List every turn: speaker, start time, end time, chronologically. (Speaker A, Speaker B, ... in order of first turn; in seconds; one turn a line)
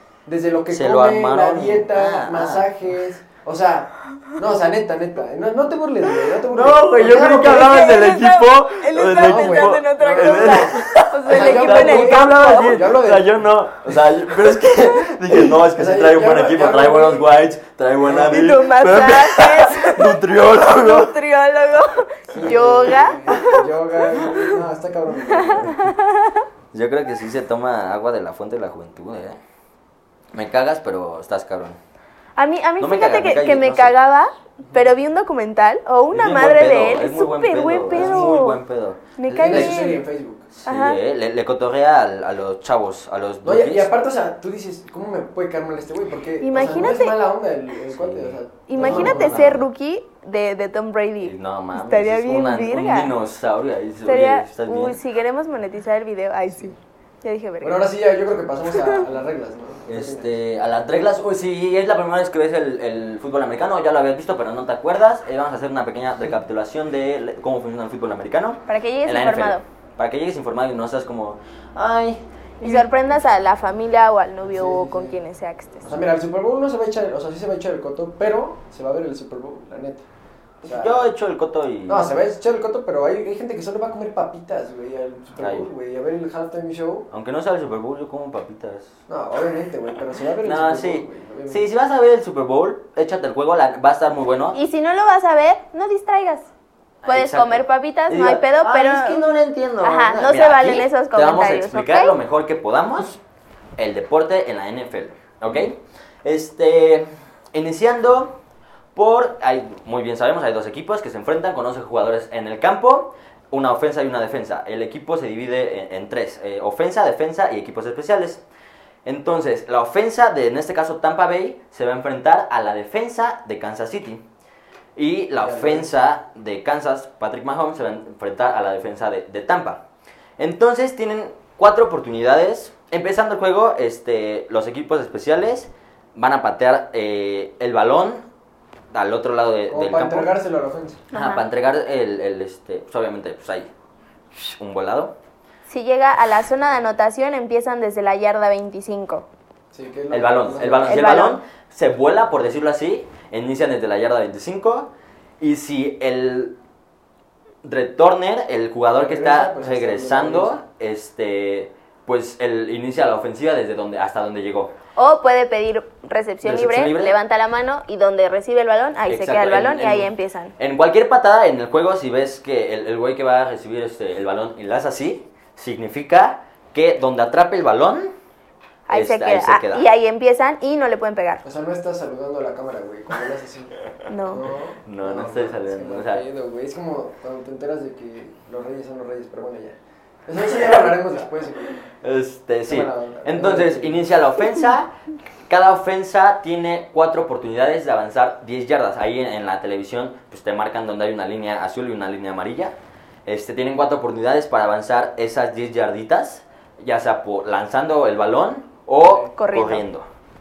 Speaker A: 0.3-7.8
Speaker B: 0.7-2.7
Speaker B: 6.5-21.1
Speaker C: 7.0-12.6
Speaker A: 9.1-13.5
Speaker A: 15.3-17.3
Speaker A: 18.0-18.5
Speaker C: 18.1-23.7
Speaker A: 22.3-25.8
Speaker C: 24.2-24.6
Speaker C: 25.3-26.4
Speaker B: 26.7-29.4
Speaker B: 30.3-31.8
Speaker C: 32.4-38.6
Speaker B: 32.8-33.9
Speaker B: 36.1-39.8
Speaker A: 37.9-38.5
Speaker C: 39.2-40.0
Speaker A: 39.4-40.5
Speaker B: 40.5-43.9
Speaker C: 40.7-41.0
Speaker A: 43.4-49.6
Speaker C: 46.4-47.2
Speaker B: 47.9-49.6
Speaker C: 48.7-53.1
Speaker B: 51.2-55.0
Speaker C: 54.0-57.8
Speaker A: 56.5-56.8
Speaker A: 57.6-60.3
Speaker C: 58.7-59.0
Speaker B: 59.9-72.9
Speaker C: 68.7-69.6
Speaker C: 72.6-75.9
Speaker A: 74.4-75.2
Speaker A: 75.8-80.1
Speaker A: 80.6-81.1
Speaker B: 80.6-82.2
Speaker A: 81.9-87.1
Speaker B: 85.4-85.7
Speaker B: 87.1-89.0
Speaker A: 89.1-91.7
Speaker B: 90.4-94.6
Speaker C: 94.5-96.5
Speaker B: 97.0-103.2
Speaker C: 97.1-99.2
Speaker C: 99.8-102.2
Speaker B: 103.8-108.4
Speaker B: 109.0-118.4
Speaker B: 119.0-124.2
Speaker B: 125.0-129.8
Speaker A: 125.4-125.9
Speaker B: 130.4-138.3
Speaker B: 138.9-140.3
Speaker A: 139.7-141.0
Speaker C: 141.1-141.5
Speaker B: 141.1-143.7
Speaker B: 144.3-145.2
Speaker C: 145.7-149.3
Speaker A: 149.7-151.1
Speaker B: 150.1-156.6
Speaker C: 150.9-151.4
Speaker B: 157.6-164.7
Speaker A: 158.9-160.6
Speaker C: 165.0-170.6
Speaker B: 166.4-167.2
Speaker B: 169.1-178.1
Speaker C: 178.9-181.4
Speaker B: 178.9-179.9
Speaker A: 181.4-183.7
Speaker C: 184.1-184.5
Speaker A: 184.2-191.8
Speaker B: 184.8-186.2
Speaker B: 190.4-190.8
Speaker B: 191.7-194.9
Speaker A: 192.7-194.1
Speaker B: 195.5-210.1
Speaker A: 209.0-209.3
Speaker C: 209.4-209.8